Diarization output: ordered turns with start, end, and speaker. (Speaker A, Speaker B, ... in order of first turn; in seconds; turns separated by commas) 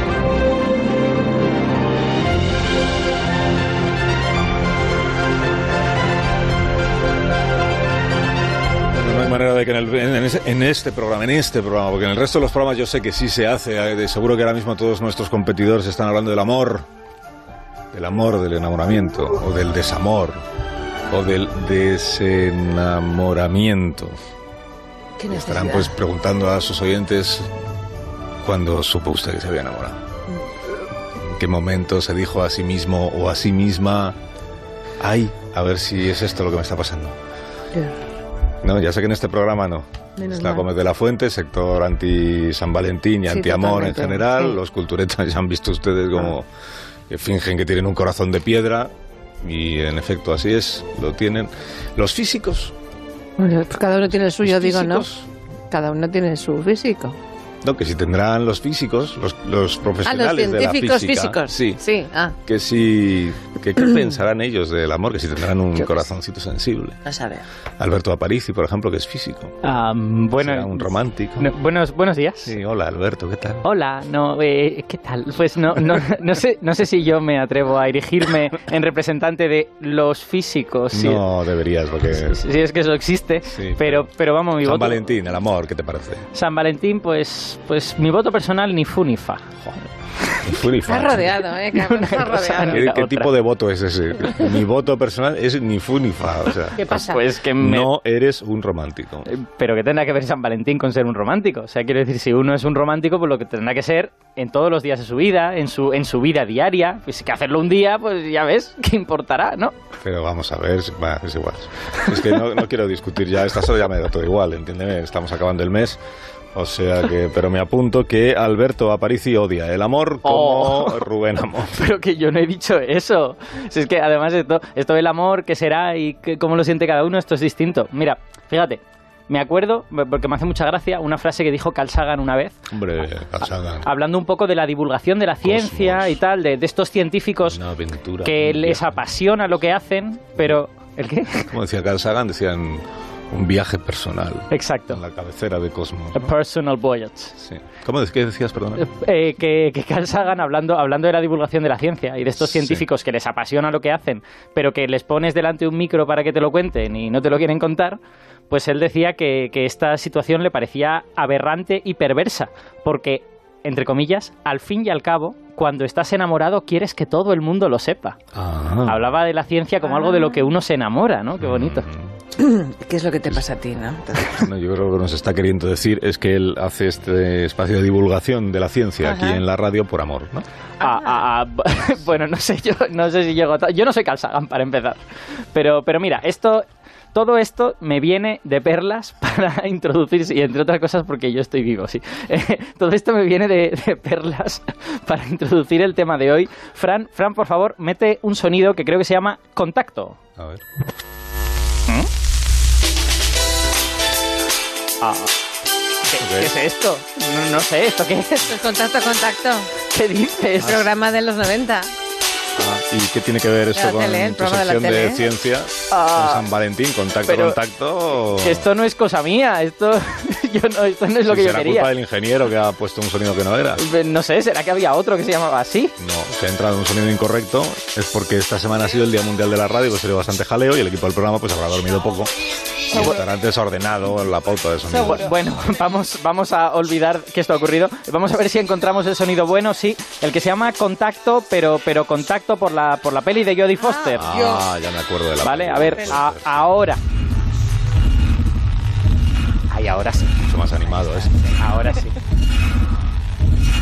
Speaker A: 8.9-16.9, Speaker A: 17.9-20.4, Speaker A: 21.1-24.2, Speaker B: 25.2-25.9, Speaker A: 25.3-27.5, Speaker A: 28.4-30.0, Speaker A: 31.2-34.2, Speaker A: 35.0-37.1, Speaker A: 38.6-46.5, Speaker B: 40.2-40.6, Speaker B: 43.3-44.6, Speaker A: 47.1-52.7, Speaker B: 53.4-55.0, Speaker A: 54.4-55.3, Speaker B: 55.7-57.2, Speaker A: 57.6-61.8, Speaker B: 60.0-62.3, Speaker A: 62.4-67.0, Speaker B: 67.0-67.4, Speaker A: 67.8-69.5, Speaker C: 69.6-72.5, Speaker A: 70.4-71.5, Speaker A: 72.4-73.6, Speaker C: 73.6-81.2, Speaker A: 80.9-82.4, Speaker C: 82.0-85.1, Speaker A: 83.5-84.1, Speaker A: 84.6-86.2, Speaker C: 86.3-89.5, Speaker C: 90.3-90.5, Speaker A: 90.4-91.4, Speaker B: 90.9-92.8, Speaker C: 91.7-93.3, Speaker A: 92.7-99.3, Speaker B: 96.8-97.2, Speaker C: 96.9-97.9, Speaker C: 99.2-109.8, Speaker A: 110.0-116.0, Speaker A: 116.5-121.9, Speaker C: 120.2-121.0, Speaker C: 121.7-132.6, Speaker A: 132.7-133.9, Speaker C: 133.8-137.6, Speaker A: 135.4-136.2, Speaker A: 137.5-139.0, Speaker C: 138.2-141.5, Speaker A: 141.5-146.3, Speaker C: 144.5-145.0, Speaker C: 146.1-147.3, Speaker A: 147.4-148.9, Speaker C: 148.8-158.0, Speaker A: 152.4-152.8, Speaker C: 158.5-168.2, Speaker A: 168.3-169.0, Speaker C: 168.8-171.9, Speaker B: 169.8-170.4, Speaker A: 171.4-172.1, Speaker B: 172.4-174.5, Speaker A: 174.3-180.4, Speaker B: 179.0-179.4, Speaker C: 180.8-200.2, Speaker A: 200.4-200.6, Speaker C: 205.0-205.3, Speaker C: 206.1-208.6, Speaker A: 206.2-206.5, Speaker B: 208.5-209.7, Speaker C: 209.9-210.9, Speaker B: 210.6-211.9, Speaker A: 212.6-218.7, Speaker B: 213.7-215.2, Speaker C: 215.9-216.4, Speaker C: 217.2-217.6, Speaker C: 218.3-221.9, Speaker A: 221.3-223.8, Speaker C: 223.8-225.9, Speaker A: 226.0-232.3, Speaker A: 232.9-235.3, Speaker B: 234.9-235.3, Speaker C: 235.1-244.3, Speaker B: 243.8-244.7, Speaker A: 244.2-246.6, Speaker C: 245.4-247.0, Speaker C: 249.7-250.3, Speaker A: 250.4-251.3, Speaker C: 251.4-252.2